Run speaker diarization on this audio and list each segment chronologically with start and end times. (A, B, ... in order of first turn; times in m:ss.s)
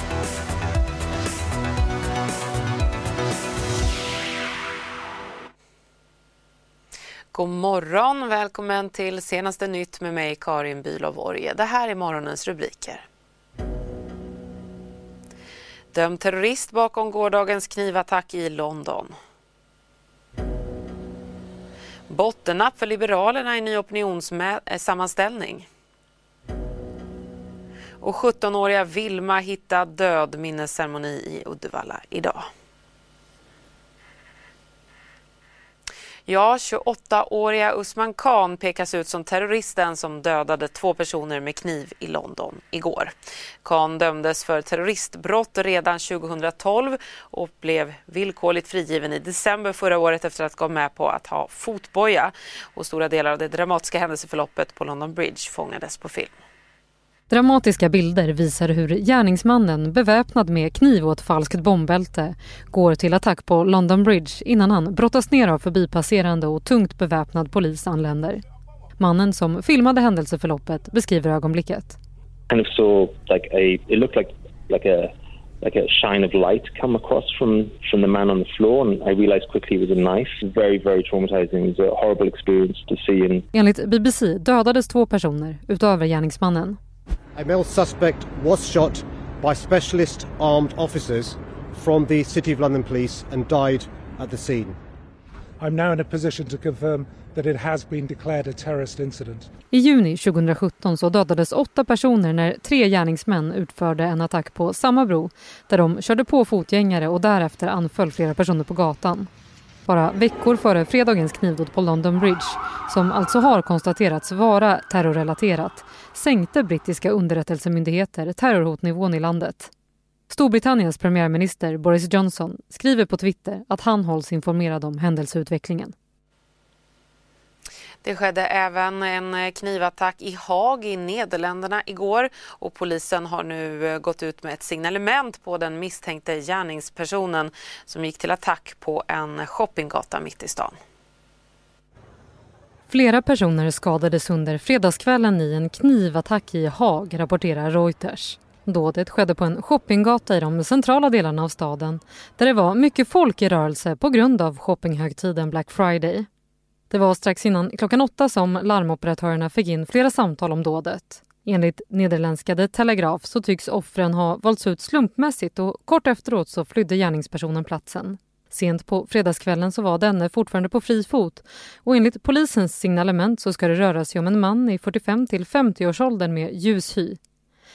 0:07.3-0:13.0 A
0:15.9-0:19.1 A
0:22.1-0:25.7 A
0:28.0-0:32.4 A
0:36.3-0:43.1 A
0:43.6-0:56.3 A
0:57.3-1:08.4 B
1:09.0-1:12.0 B
1:12.5-1:23.4 C
1:23.5-1:26.8 B
1:27.4-1:34.8 D
1:35.6-1:39.4 E
1:39.7-1:49.3 B
1:49.8-1:59.7 B
2:00.3-2:05.9 B
2:08.0-2:20.8 A
2:22.9-2:36.3 B
2:36.9-2:57.2 B